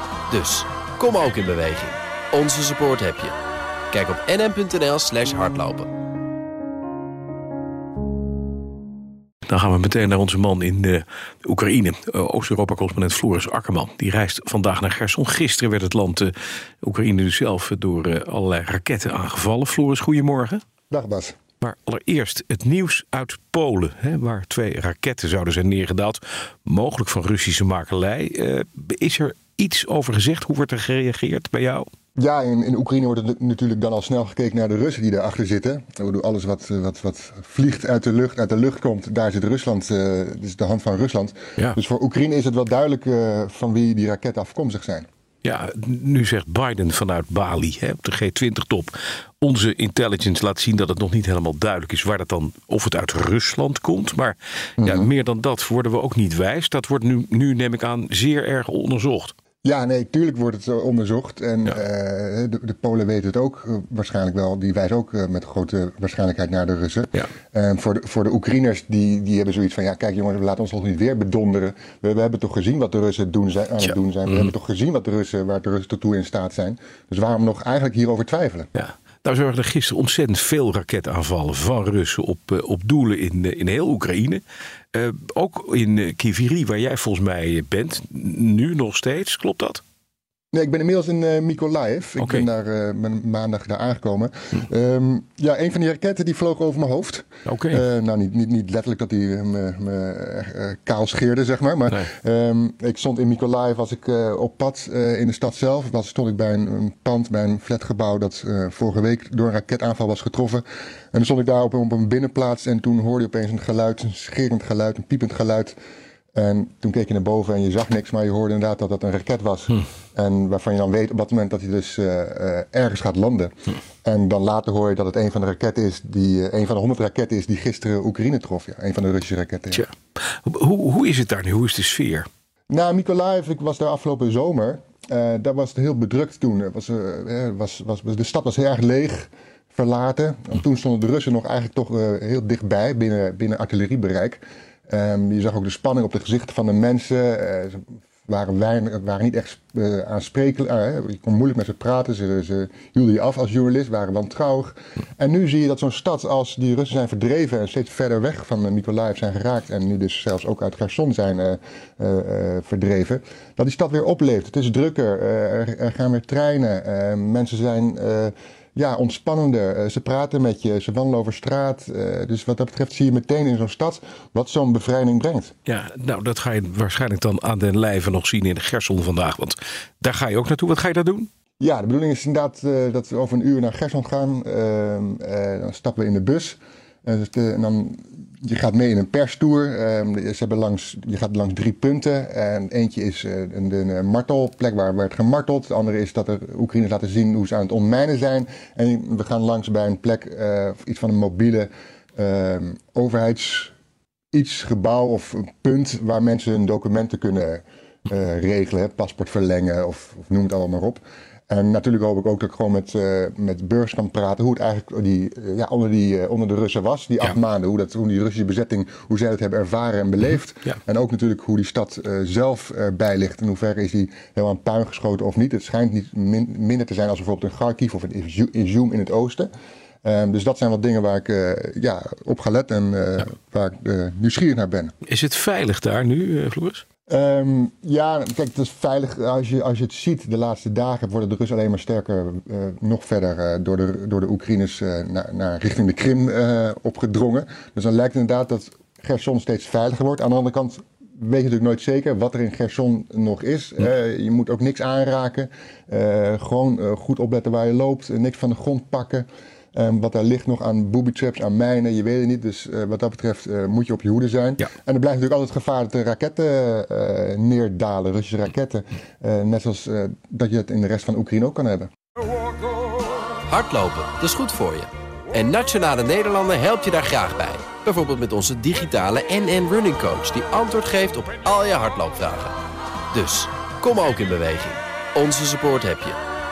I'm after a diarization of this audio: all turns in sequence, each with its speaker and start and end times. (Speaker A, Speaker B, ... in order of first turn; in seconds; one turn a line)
Speaker A: 0.3-3.4
Speaker A: 3.9-5.9
Speaker B: 9.5-20.6
Speaker C: 20.9-21.4
Speaker B: 21.6-31.9
Speaker C: 32.2-45.1
Speaker B: 45.4-59.3
Speaker C: 54.8-55.1
Speaker C: 59.6-78.7
Speaker B: 78.8-84.4
Speaker B: 84.9-89.8
Speaker C: 90.5-115.8
Speaker B: 92.2-92.5
Speaker B: 97.5-97.8
Speaker C: 116.3-123.5
Speaker C: 124.0-129.9
Speaker B: 129.7-132.3
Speaker C: 132.7-175.5
Speaker B: 175.7-181.3
Speaker C: 181.6-203.7
Speaker C: 204.3-229.5
Speaker C: 230.0-234.9
Speaker B: 235.1-236.8
Speaker C: 237.1-271.9
Speaker A: 273.5-282.6
Speaker A: 283.1-286.2